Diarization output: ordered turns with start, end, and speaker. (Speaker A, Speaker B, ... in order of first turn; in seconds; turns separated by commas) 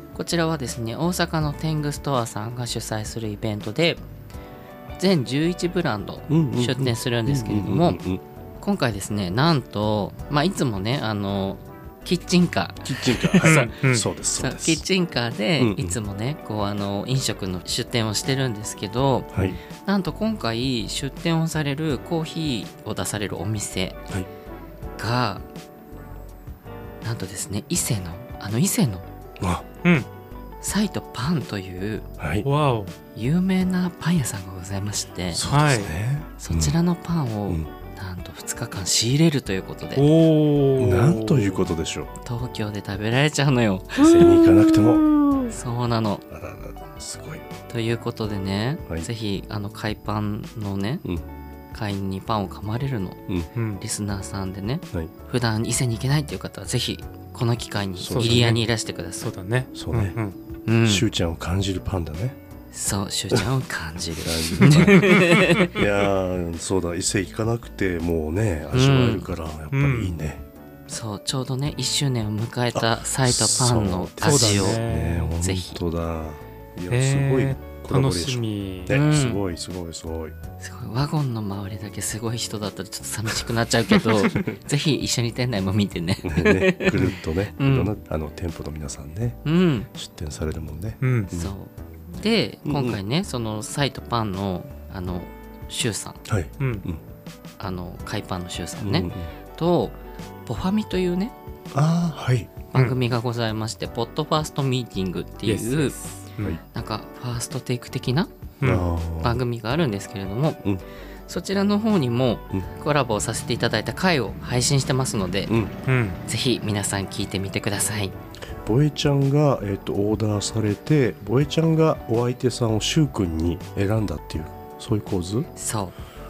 Speaker A: 0.1-4.0, Speaker A: 5.0-8.0, Speaker B: 6.3-8.2, Speaker A: 8.6-13.7, Speaker B: 12.8-14.8, Speaker C: 13.4-14.1, Speaker A: 14.3-24.0, Speaker B: 15.6-16.0, Speaker B: 19.3-19.6, Speaker A: 25.0-25.4, Speaker A: 27.0-29.1, Speaker B: 29.4-29.6, Speaker A: 30.6-32.1, Speaker B: 32.2-32.5, Speaker C: 32.4-32.9, Speaker A: 33.1-35.4, Speaker B: 35.3-36.8, Speaker C: 35.5-35.9, Speaker A: 36.4-40.0, Speaker C: 39.9-41.7, Speaker B: 40.8-42.1, Speaker A: 42.2-44.4, Speaker B: 44.0-45.5, Speaker A: 45.5-46.2, Speaker B: 46.3-47.5, Speaker A: 47.7-51.0, Speaker A: 51.7-53.2, Speaker C: 53.5-53.8, Speaker A: 53.8-59.3, Speaker B: 58.0-58.6, Speaker C: 58.1-58.6, Speaker C: 59.2-60.4, Speaker B: 59.7-60.2, Speaker A: 60.6-61.0, Speaker B: 60.8-62.4, Speaker A: 62.7-65.8, Speaker B: 64.2-70.4, Speaker C: 65.0-65.6, Speaker A: 68.7-69.3, Speaker C: 69.7-70.2, Speaker A: 70.9-74.8, Speaker B: 72.7-80.3, Speaker C: 74.2-75.3, Speaker A: 75.4-75.8, Speaker C: 76.9-79.0, Speaker A: 78.9-79.4, Speaker A: 80.6-87.9, Speaker B: 86.2-91.5, Speaker A: 89.4-89.9, Speaker C: 91.0-91.3, Speaker A: 91.3-96.2, Speaker B: 92.6-93.0, Speaker B: 96.3-97.0, Speaker C: 96.6-96.8, Speaker A: 97.6-101.3, Speaker B: 98.8-99.3, Speaker B: 101.7-102.5, Speaker A: 102.7-105.9, Speaker C: 105.4-106.6, Speaker A: 106.7-108.3, Speaker C: 108.6-108.9, Speaker B: 108.6-109.4, Speaker A: 109.2-110.6, Speaker A: 111.3-115.6, Speaker B: 115.5-115.8, Speaker C: 115.8-116.2, Speaker A: 116.2-118.2, Speaker B: 118.6-125.5, Speaker A: 125.5-126.0